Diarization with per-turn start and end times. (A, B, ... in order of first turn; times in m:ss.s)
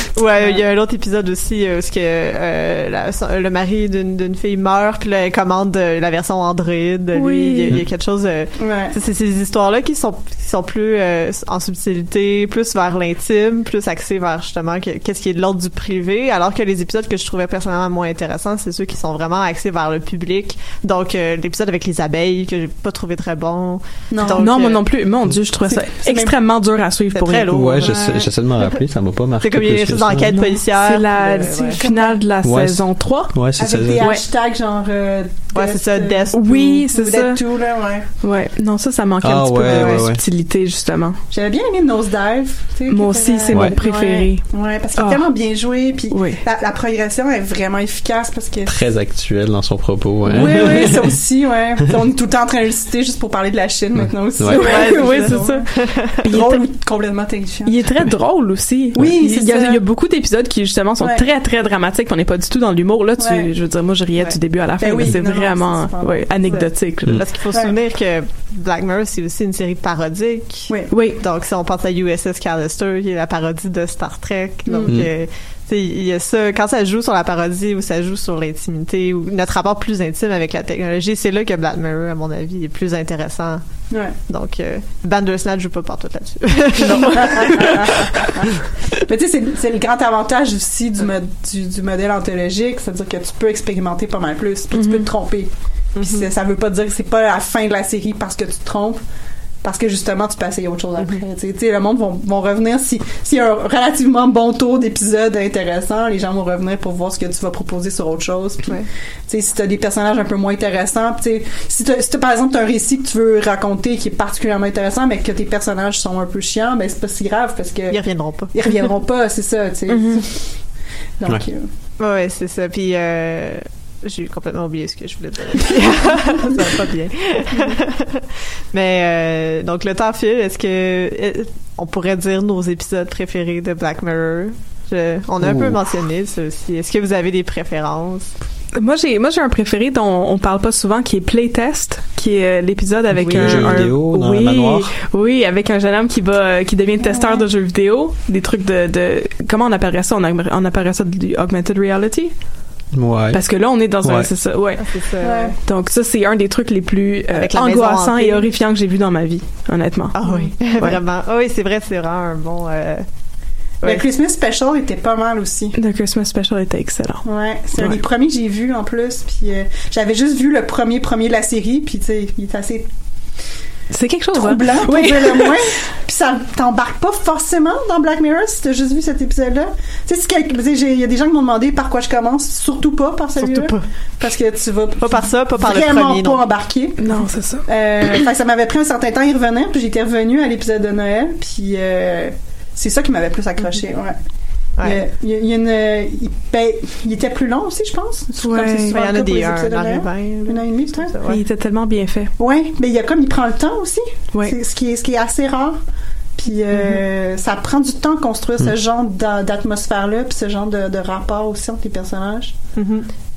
0:00.2-0:24.8 A
0:07.2-0:07.8 B
0:08.6-0:09.0 C
0:24.1-0:24.5 C
0:24.3-0:27.9 B
0:25.6-0:26.4 C
0:27.1-0:28.2 A
0:27.5-0:30.4 D
0:29.4-0:31.8 A
0:30.3-0:33.4 B
0:31.8-0:32.2 C
0:32.4-0:34.1 D
0:33.6-0:38.0 C
0:34.0-0:34.2 B
0:35.5-0:36.8 A
0:36.3-0:37.4 B
0:38.2-0:41.2 B
0:39.2-0:40.2 D
0:39.6-0:40.1 A
0:41.3-0:48.8 C
0:42.9-0:44.4 B
0:43.5-0:43.8 D
0:45.0-0:45.3 B
0:46.1-0:46.4 B
0:48.7-0:51.2 D
0:50.3-0:55.6 C
0:54.0-0:54.6 D
0:54.6-0:55.7 B
0:54.6-0:56.2 A
0:56.2-0:56.6 B
0:56.2-0:57.8 C
0:57.7-1:07.2 B
0:58.9-0:59.8 C
1:01.0-1:01.2 C
1:03.2-1:03.5 C
1:04.8-1:06.7 C
1:06.5-1:23.6 A
1:10.9-1:11.2 B
1:14.7-1:15.0 C
1:24.3-1:27.8 A
1:26.8-1:35.5 C
1:34.7-1:35.1 B
1:36.0-1:36.3 A
1:36.0-1:39.0 C
1:39.6-1:58.0 C
1:57.9-1:58.8 A
1:58.5-2:00.4 C
2:01.2-2:01.7 C
2:02.0-2:18.3 A
2:15.4-2:15.8 D
2:18.8-2:32.3 B
2:23.2-2:23.9 A
2:23.2-2:24.9 D
2:27.0-2:27.4 C
2:32.9-2:33.4 D
2:33.3-2:34.8 B
2:34.0-2:34.3 D
2:34.8-2:35.5 A
2:35.2-2:35.6 C
2:35.6-2:40.2 B
2:37.3-2:38.5 A
2:40.1-2:43.0 A
2:40.2-2:40.5 C
2:43.8-2:45.8 C
2:45.8-2:47.3 B
2:47.2-2:52.9 C
2:53.9-2:55.6 B
2:54.3-3:14.2 C
3:03.4-3:03.8 A
3:05.0-3:06.4 A
3:07.0-3:07.7 B
3:14.8-3:21.1 C
3:18.4-3:19.0 B
3:18.9-3:21.4 A
3:21.3-3:22.3 B
3:22.4-3:25.8 C
3:26.4-3:32.6 C
3:32.8-3:33.1 A